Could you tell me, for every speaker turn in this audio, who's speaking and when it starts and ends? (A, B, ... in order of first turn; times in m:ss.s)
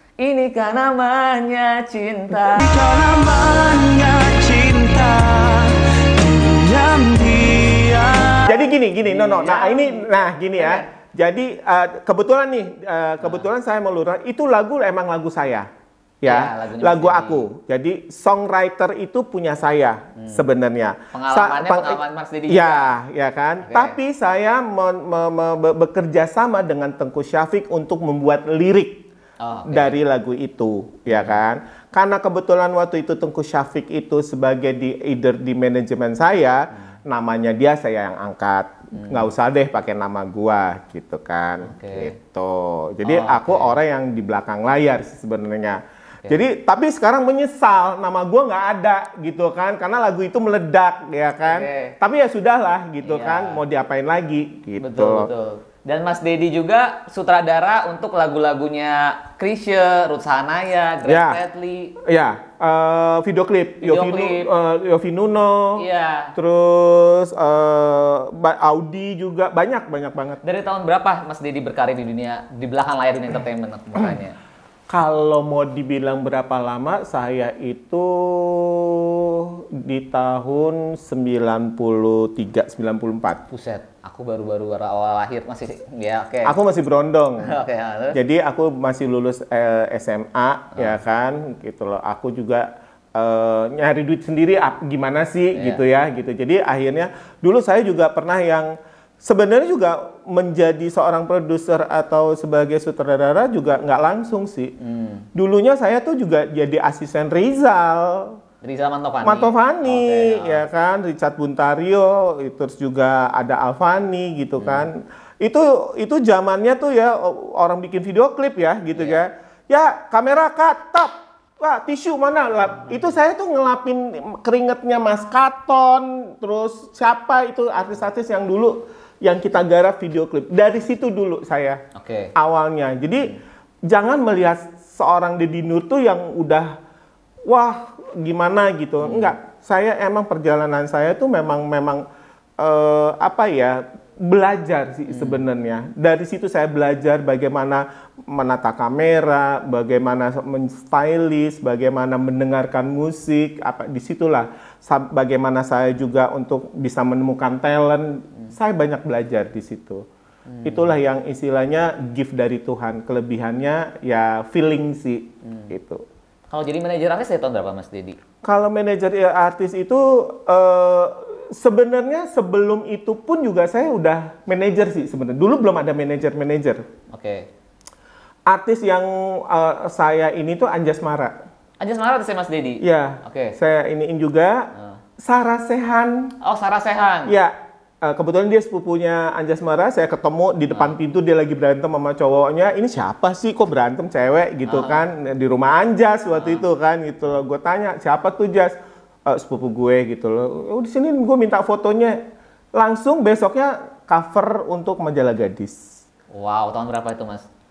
0:00.2-0:02.7 A
0:02.5-0:08.5 B
0:08.4-0:15.7 C
0:09.0-0:10.9 A
0:13.2-0:13.5 A
0:16.2-0:29.1 C
0:16.2-0:17.5 A
0:20.2-0:20.4 A
0:21.1-0:22.9 A
0:23.6-0:24.0 A
0:29.4-0:30.0 A
0:29.7-0:55.3 C
0:31.1-0:31.4 A
0:39.0-0:39.3 A
0:41.6-0:42.1 A
0:43.0-0:43.8 A
0:51.4-0:52.0 A
0:53.0-0:53.6 A
0:54.8-1:02.0 A
1:01.1-1:01.4 C
1:02.0-1:05.8 C
1:03.8-1:04.5 A
1:05.8-1:06.3 A
1:06.4-1:10.4 C
1:10.4-1:14.4 A
1:14.9-1:23.4 C
1:23.5-1:26.6 A
1:26.4-1:27.5 C
1:27.4-1:28.2 A
1:28.1-1:44.7 C
1:35.5-1:35.8 A
1:44.8-1:45.3 A
1:45.4-1:48.4 C
1:48.6-1:50.6 A
1:49.2-2:11.8 C
1:54.6-1:54.9 A
1:59.0-1:59.2 A
2:12.0-2:12.3 A
2:12.4-2:16.8 C
2:17.5-2:22.0 C
2:19.0-2:19.3 A
2:22.6-2:40.0 C
2:25.1-2:25.4 A
2:40.5-2:41.0 A
2:40.6-2:46.0 C
2:45.4-2:45.7 A
2:46.5-2:48.2 A
2:48.4-2:56.8 C
2:57.1-2:57.5 A
2:58.5-3:01.4 C
3:01.8-3:03.6 A
3:02.8-3:06.3 C
3:06.4-3:07.3 A
3:07.3-3:18.7 C
3:10.7-3:11.0 A
3:14.7-3:15.1 A
3:16.3-3:16.7 A
3:19.3-3:25.8 C
3:26.3-3:27.5 A